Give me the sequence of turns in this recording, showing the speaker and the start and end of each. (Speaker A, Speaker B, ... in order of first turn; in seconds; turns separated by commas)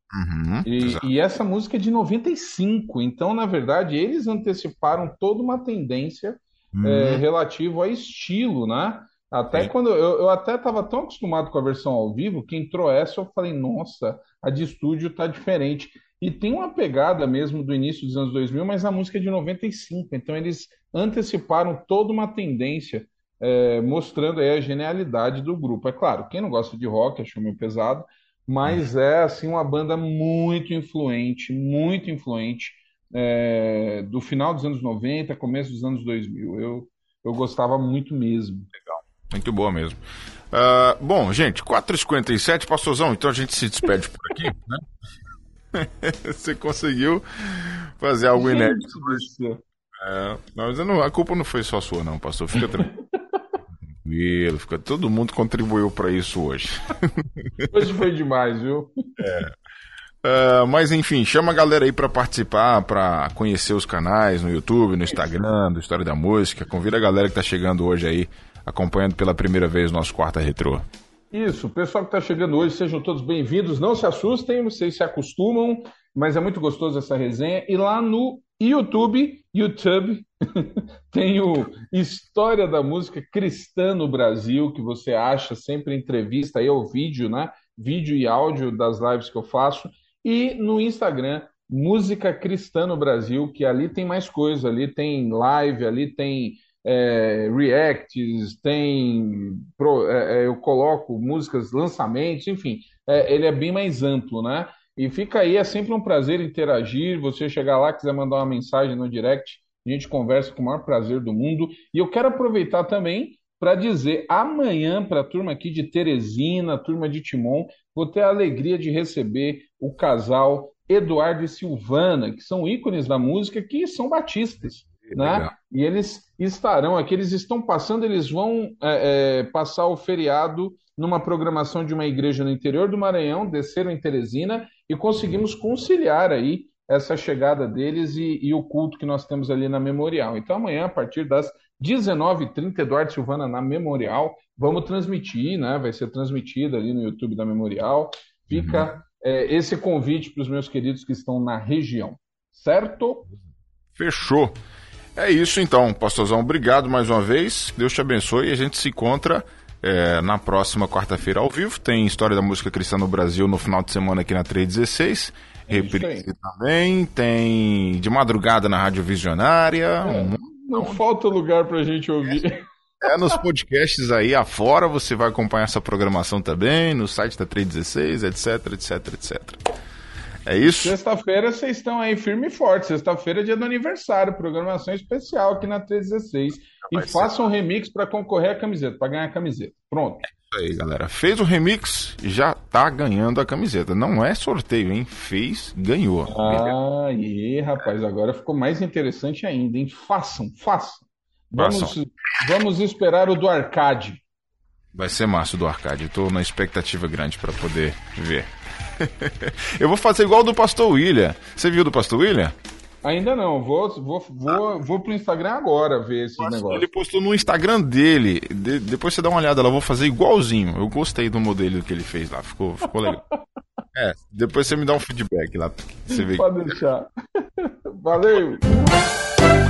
Speaker A: 0.1-1.0, Speaker B: 0.7-38.7, Speaker A: 6.8-7.2, Speaker A: 38.9-40.0, Speaker A: 40.5-44.8, Speaker A: 45.8-49.3, Speaker B: 48.3-49.6, Speaker A: 50.0-52.9, Speaker A: 53.9-57.7, Speaker B: 57.7-58.9, Speaker A: 59.2-59.5, Speaker A: 60.2-70.9, Speaker B: 71.3-153.3, Speaker A: 125.1-125.5, Speaker A: 148.5-148.9, Speaker A: 153.9-154.6, Speaker A: 155.2-171.0, Speaker B: 165.7-166.3, Speaker B: 170.0-172.6, Speaker A: 173.0-179.6, Speaker A: 180.5-180.9, Speaker B: 180.7-190.3, Speaker A: 186.9-187.3, Speaker A: 190.3-196.7, Speaker B: 196.3-204.2, Speaker A: 201.6-202.0, Speaker A: 204.9-208.5, Speaker A: 209.0-212.6, Speaker B: 213.0-216.8, Speaker A: 216.4-223.2, Speaker A: 223.9-226.6, Speaker B: 226.1-227.1, Speaker B: 227.6-228.9